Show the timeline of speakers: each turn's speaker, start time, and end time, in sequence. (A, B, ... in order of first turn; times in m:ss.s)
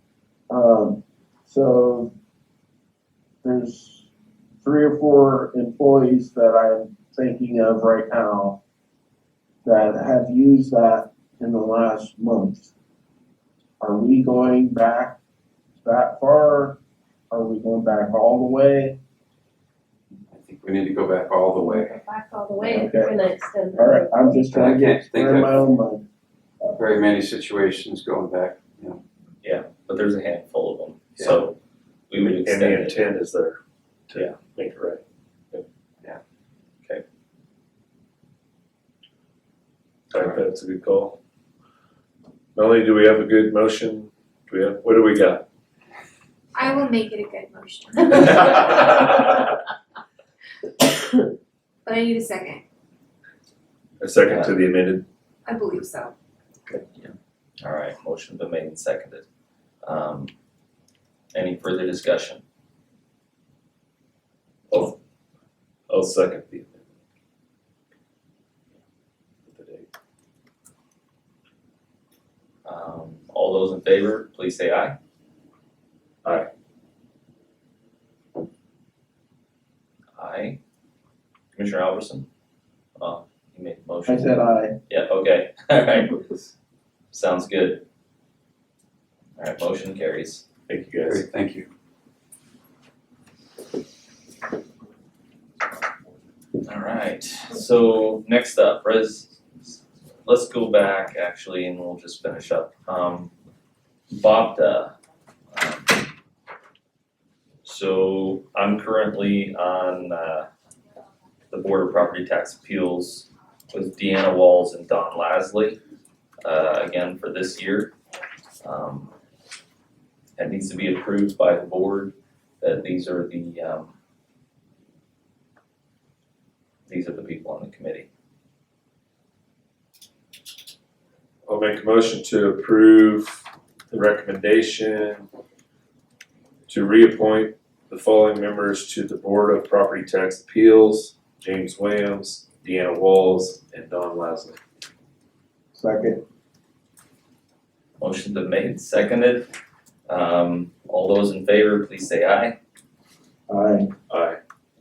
0:00.5-0:02.1 A
0:03.4-0:04.1 A
0:04.6-0:08.6 A
0:09.6-0:12.7 A
0:13.8-0:15.2 A
0:15.8-0:16.8 A
0:17.3-0:19.0 A
0:20.3-0:22.0 B
0:21.6-0:24.4 C
0:22.6-0:23.2 A
0:23.8-0:26.0 A
0:24.5-0:25.6 B
0:26.8-0:29.0 B
0:29.4-0:31.6 D
0:32.1-0:33.0 D
0:32.2-0:35.0 E
0:40.1-0:41.2 E
0:42.6-0:45.4 E
0:46.5-0:49.4 F
0:51.9-0:52.6 F
0:54.0-0:55.0 E
0:55.4-0:56.2 F
0:56.7-0:59.2 D
0:59.8-1:00.3 D
1:01.3-1:02.4 D
1:04.7-1:05.0 E
1:05.9-1:06.8 E
1:09.5-1:09.9 E
1:12.6-1:15.0 D
1:20.2-1:20.6 D
1:21.5-1:22.3 D
1:23.0-1:26.2 D
1:24.1-1:24.8 A
1:27.1-1:27.8 D
1:29.4-1:30.5 D
1:30.7-1:31.2 E
1:31.0-1:31.7 B
1:36.6-1:39.4 D
1:40.2-1:43.3 D
1:44.1-1:44.9 D
1:45.5-1:46.0 D
1:47.6-1:50.5 D
1:51.5-1:55.8 D
1:56.4-1:57.9 D
1:58.6-1:59.1 D
2:00.4-2:03.9 D
2:06.9-2:08.1 D
2:11.5-2:15.2 E
2:16.7-2:24.6 E
2:25.7-2:26.2 A
2:28.0-2:29.5 D
2:30.1-2:32.6 D
2:33.5-2:33.9 A
2:34.1-2:34.4 E